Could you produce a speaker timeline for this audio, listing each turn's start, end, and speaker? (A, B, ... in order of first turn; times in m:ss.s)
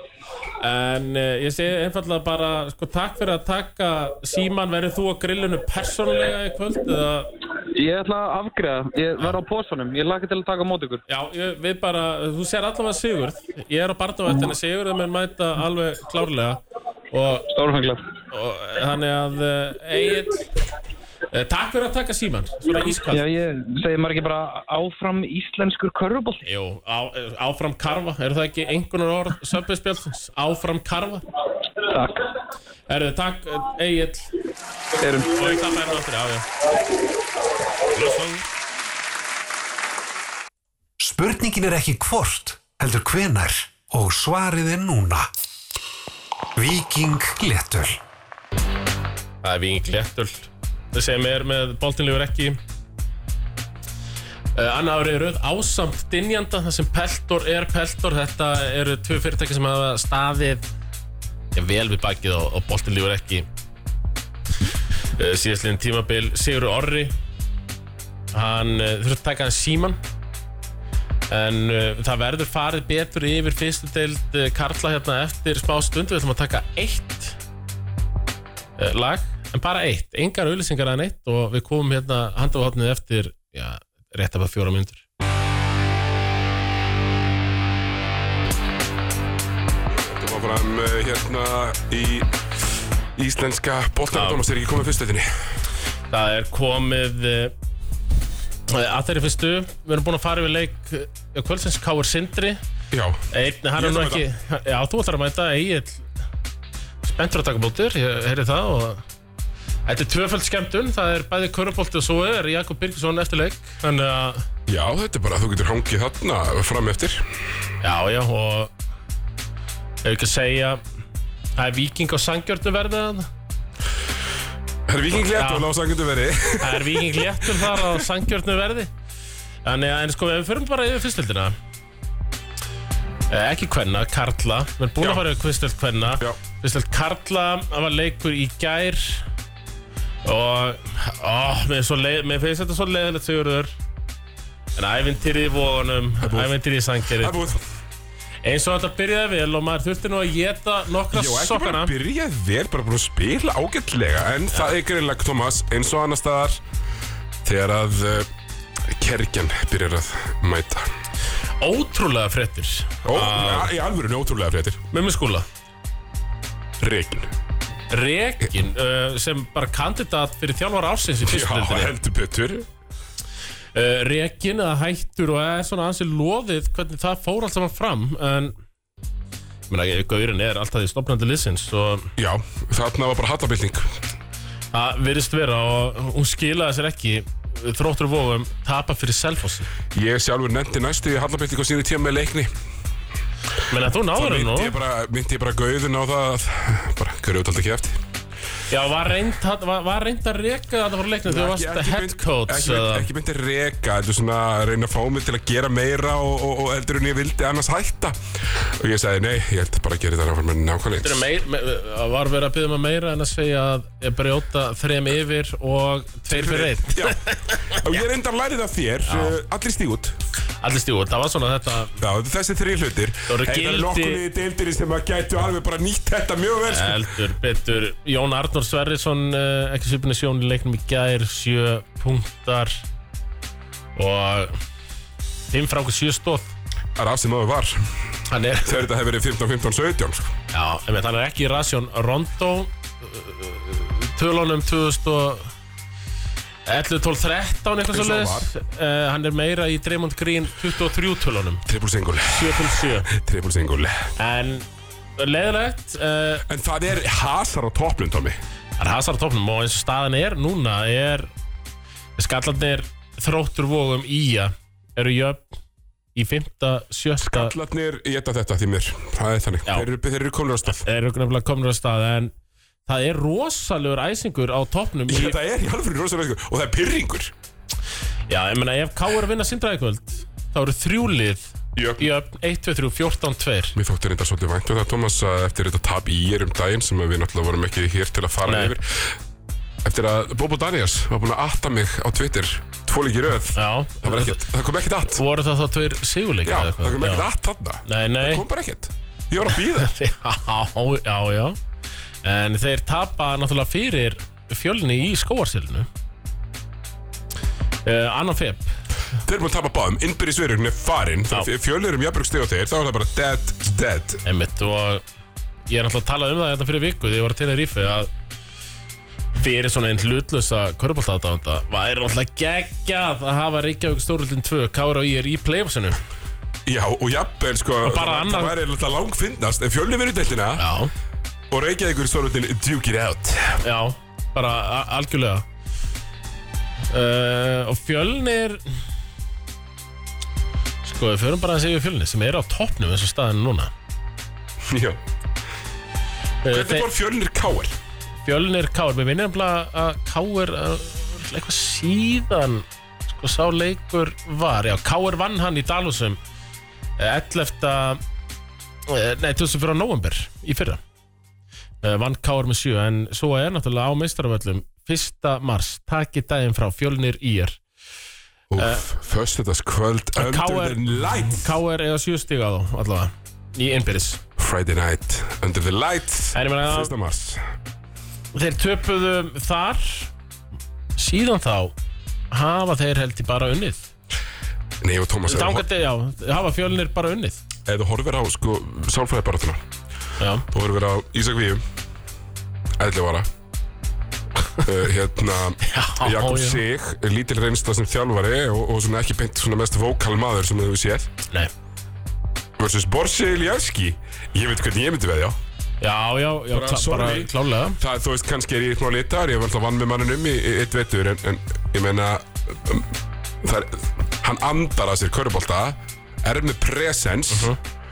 0:00.6-0:07.3 A
0:07.6-0:11.0 B
0:11.1-0:17.5 A
0:17.5-0:18.0 B
0:18.3-0:20.5 A
0:21.3-0:23.3 A
0:23.1-0:26.4 B
0:26.4-0:31.2 A
0:31.8-0:32.2 B
0:32.9-0:34.3 A
0:35.0-0:35.8 B
0:35.3-0:36.4 A
0:37.9-0:38.4 A
0:41.0-0:45.3 C
0:46.6-0:48.0 C
0:49.4-0:52.6 A
0:54.6-1:00.7 A
1:01.6-1:03.4 A
1:05.2-1:07.1 A
1:08.3-1:10.0 A
1:11.3-1:17.4 A
1:18.8-1:25.0 A
1:30.0-1:32.3 D
1:33.2-1:35.3 D
1:34.1-1:34.4 A
1:36.1-1:37.6 A
1:38.7-1:42.6 A
1:42.9-1:43.2 D
1:43.3-1:46.1 A
1:43.8-1:44.2 D
1:47.0-1:49.0 A
1:49.9-1:54.4 A
1:54.7-1:57.3 D
1:57.8-1:58.7 A
2:00.0-2:00.8 A
2:01.6-2:03.3 A
2:04.9-2:08.0 D
2:05.3-2:05.7 A
2:06.6-2:08.9 A
2:09.6-2:11.6 A
2:13.3-2:19.2 A
2:15.0-2:15.2 D
2:20.2-2:23.7 A
2:24.8-2:27.6 A
2:26.2-2:26.6 D
2:27.1-2:27.6 D
2:28.4-2:31.9 A
2:31.1-2:36.6 D
2:37.4-2:38.3 D
2:38.8-2:40.9 D
2:41.6-2:43.7 A
2:43.0-2:44.8 D
2:44.9-2:45.4 A
2:46.8-2:47.3 D
2:47.9-2:51.9 A
2:51.2-2:52.7 D
2:53.7-2:58.6 A
2:59.7-3:02.1 A
3:02.2-3:04.0 D
3:04.7-3:09.7 A
3:09.9-3:12.5 D
3:13.7-3:14.7 A
3:14.1-3:18.0 D
3:18.7-3:23.1 A
3:21.3-3:31.3 D
3:31.0-3:37.8 A
3:36.3-3:40.2 D
3:39.0-3:39.4 A
3:40.6-3:42.0 A
3:42.0-3:47.0 D
3:43.3-3:44.2 A
3:46.7-3:52.8 A
3:54.0-3:54.6 A
3:55.5-3:56.5 A
3:57.0-3:57.9 D
3:58.3-3:58.8 A
3:58.6-4:00.3 D
4:00.5-4:05.5 A
4:06.6-4:11.6 A
4:07.9-4:08.5 D
4:11.6-4:14.1 D
4:12.2-4:13.1 A
4:14.2-4:16.4 A
4:16.5-4:18.4 D
4:18.8-4:21.3 A
4:22.2-4:25.6 A
4:26.1-4:27.6 A
4:27.2-4:30.9 D
4:30.6-4:32.3 A
4:32.9-4:35.4 A
4:35.1-4:37.3 D
4:38.3-4:43.7 A
4:41.7-4:42.0 D
4:43.7-4:49.2 D
4:48.4-4:48.7 A
4:49.8-4:55.2 D
4:53.6-4:54.4 A
4:55.1-4:57.3 A
4:56.4-4:59.9 D
4:57.8-4:58.4 A
4:59.7-5:01.6 A
5:02.2-5:05.9 A
5:07.8-5:08.7 A
5:09.2-5:14.2 D
5:14.2-5:15.0 A
5:15.7-5:18.1 A
5:19.3-5:26.0 A
5:26.6-5:30.7 D
5:27.8-5:28.6 A
5:30.6-5:30.9 A
5:31.5-5:33.6 D
5:33.6-5:35.4 A
5:36.9-5:38.7 A
5:40.8-5:43.7 A
5:44.6-5:45.0 D
5:46.4-5:46.9 A
5:46.5-5:47.7 D
5:48.2-5:56.2 A
5:57.0-5:58.0 A
5:58.9-6:00.8 A
6:01.8-6:07.6 A
6:08.5-6:11.6 D
6:08.6-6:08.8 A
6:10.2-6:14.2 A
6:14.4-6:17.4 D
6:16.3-6:16.9 A
6:18.3-6:20.1 A
6:21.0-6:21.7 A
6:22.3-6:23.9 A
6:24.8-6:25.6 D
6:25.3-6:27.4 A
6:27.6-6:29.6 D
6:30.2-6:30.4 A
6:30.5-6:31.6 D
6:32.8-6:33.3 D
6:34.6-6:41.1 D
6:35.6-6:36.6 A
6:42.6-6:45.4 D
6:45.8-6:47.8 A
6:46.5-6:57.5 D
6:57.3-6:57.6 A